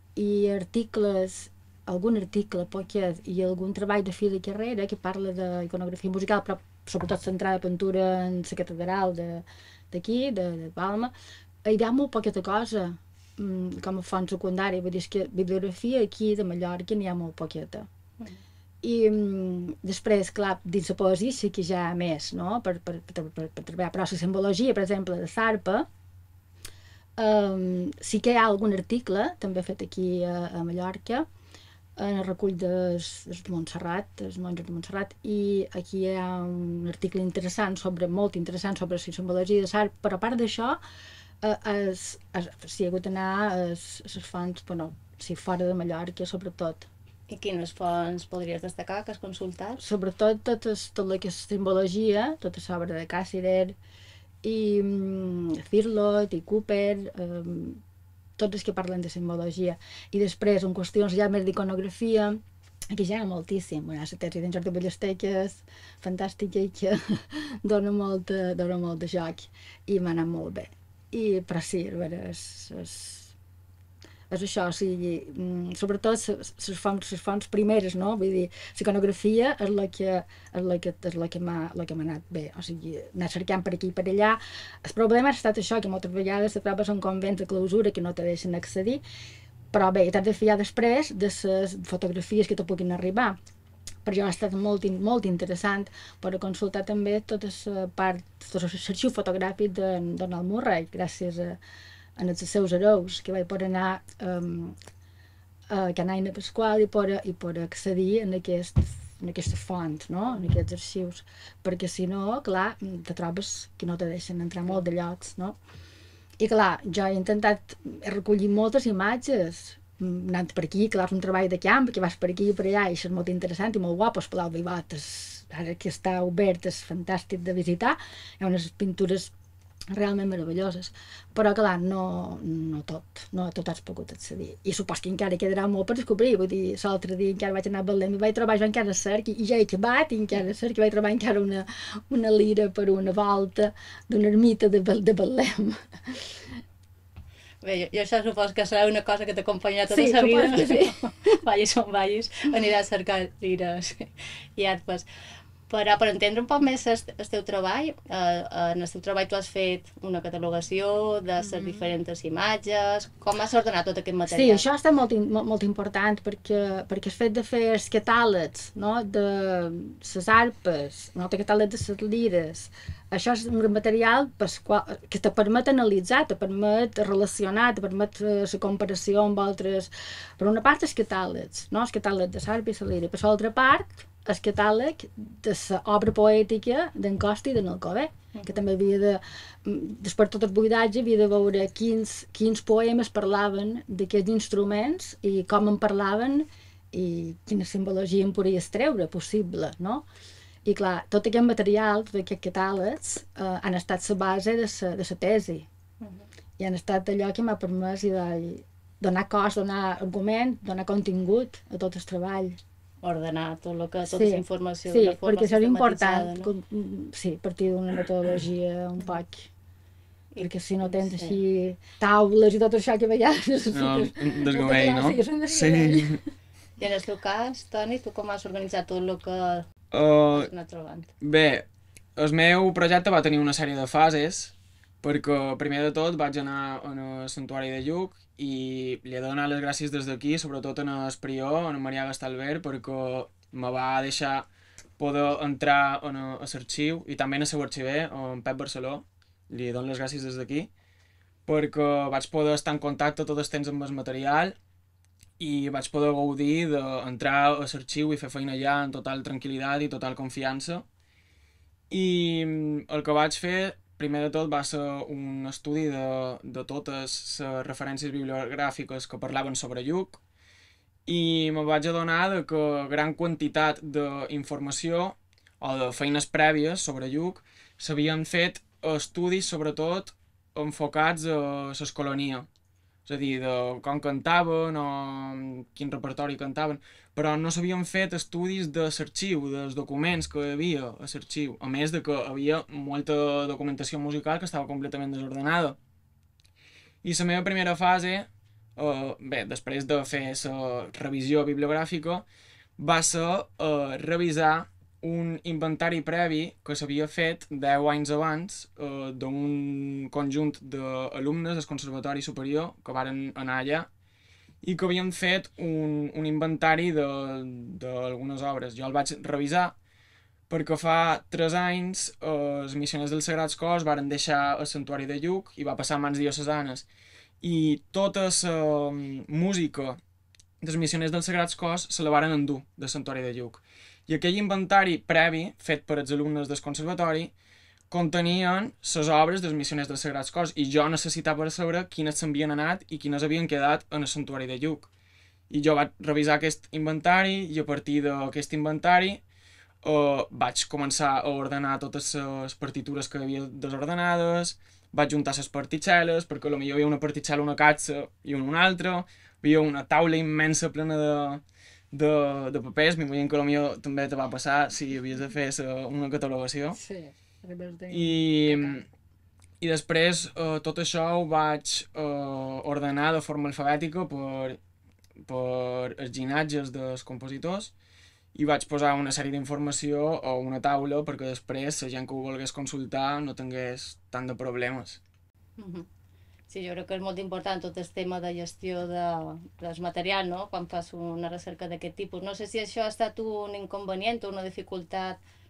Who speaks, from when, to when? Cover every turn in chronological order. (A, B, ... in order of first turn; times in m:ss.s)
0:00.2-0:11.1 A
0:11.6-0:17.9 A
0:18.8-0:25.9 A
0:27.2-0:31.3 A
0:32.0-0:40.8 A
0:41.4-0:46.9 A
0:47.3-0:49.8 B
0:49.8-0:53.8 A
0:54.4-0:57.8 A
0:58.4-1:13.3 A
1:14.3-1:29.0 A
1:29.7-1:33.4 A
1:34.0-1:41.6 A
1:42.2-1:44.8 A
1:45.7-1:55.6 A
1:56.4-2:09.3 A
2:09.9-2:26.6 A
2:27.6-2:35.1 B
2:29.9-2:31.0 A
2:35.7-2:44.6 B
2:41.4-2:41.9 A
2:44.3-3:20.0 A
3:20.6-3:25.7 A
3:26.0-3:26.3 B
3:26.6-3:32.6 A
3:33.0-3:36.5 B
3:34.1-3:39.5 A
3:40.3-3:41.4 B
3:40.4-3:46.2 A
3:43.7-3:46.2 C
3:46.8-3:49.7 B
3:49.9-3:50.5 C
3:50.3-3:51.1 B
3:51.2-3:51.6 C
3:52.2-4:04.5 C
4:05.0-4:10.7 C
4:11.5-4:14.6 C
4:15.4-4:20.9 C
4:21.9-4:30.2 C
4:31.1-4:42.5 C
4:43.1-4:55.8 C
4:57.0-5:02.2 C
5:02.8-5:13.9 C
5:14.6-5:19.8 C
5:20.5-5:26.9 C
5:27.4-5:30.0 C
5:30.6-5:37.3 C
5:37.9-5:44.9 C
5:45.5-5:49.2 C
5:49.8-6:06.8 C
6:06.7-6:08.8 A
6:07.9-6:08.8 C
6:09.6-6:14.6 C
6:15.2-6:17.7 C
6:18.3-6:25.0 C
6:25.6-6:25.9 B
6:26.5-6:35.2 B